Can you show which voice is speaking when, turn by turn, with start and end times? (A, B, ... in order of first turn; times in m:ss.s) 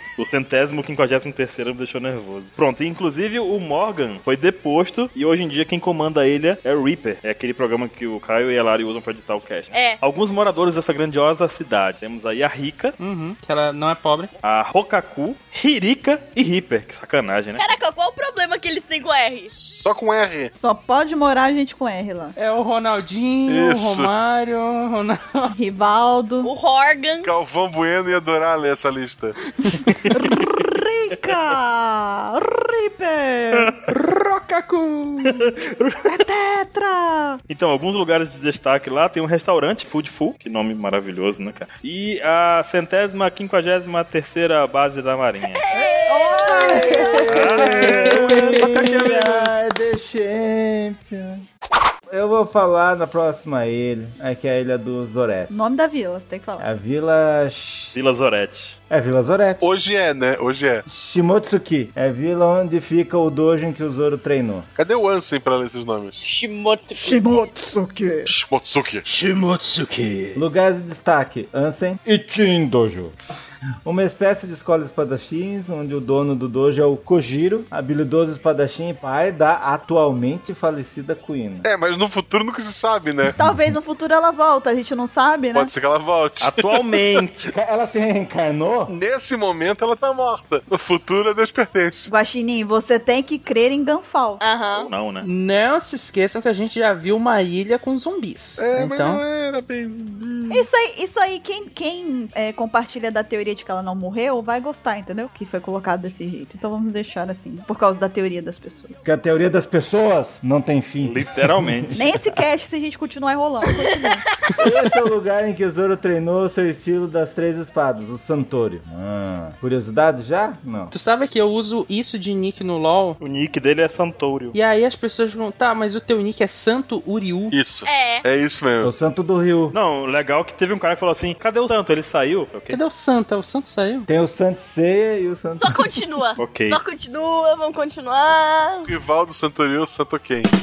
0:00.2-0:13.0 A
0:09.7-0:10.0 B
0:13.0-0:14.3 C
0:14.4-0:17.6 A
0:17.6-0:19.5 B
0:19.5-0:20.5 D
0:20.6-0:22.4 E
0:22.4-0:25.5 C
0:23.5-0:24.1 D
0:25.5-0:26.5 E
0:26.4-0:27.3 B
0:27.2-0:29.4 D
0:29.6-0:29.9 C
0:29.9-0:30.4 A
0:30.1-0:33.7 E
0:33.9-0:35.5 C
0:35.2-0:36.1 A
0:36.0-0:37.4 E
0:37.5-0:45.6 A
0:45.6-0:46.6 B
0:45.8-0:51.4 F
0:46.0-0:47.6 E
0:47.3-0:49.5 A
0:48.1-0:48.6 C
0:52.1-0:55.6 F
0:55.5-0:56.7 E
0:56.6-0:58.0 F
0:57.9-0:58.8 A
0:58.9-0:59.6 F
0:59.6-1:00.8 D
1:00.8-1:04.7 F
1:04.8-1:06.2 D
1:06.2-1:07.3 B
1:07.0-1:08.3 E
1:08.2-1:09.1 D
1:09.0-1:10.4 C
1:10.3-1:13.1 F
1:13.8-1:21.7 F
1:21.6-1:23.4 D
1:23.4-1:23.7 F
1:23.4-1:25.7 E
1:25.5-1:27.0 D
1:26.4-1:27.5 A
1:27.5-1:28.9 F
1:28.9-1:32.1 D
1:32.1-1:34.4 E
1:34.4-1:34.9 B
1:34.7-1:35.3 A
1:35.2-1:39.2 C
1:38.6-1:40.6 D
1:40.5-1:49.1 E
1:49.0-1:52.4 F
1:51.0-1:51.9 A
1:51.9-1:54.2 E
1:54.6-2:00.9 F
2:00.9-2:03.2 C
2:03.2-2:04.6 A
2:04.5-2:07.5 C
2:07.5-2:08.9 D
2:07.8-2:08.2 B
2:08.8-2:09.8 F
2:09.7-2:12.8 A
2:12.7-2:14.1 C
2:14.1-2:15.9 F
2:15.5-2:18.9 B
2:16.4-2:16.8 A
2:18.8-2:20.5 D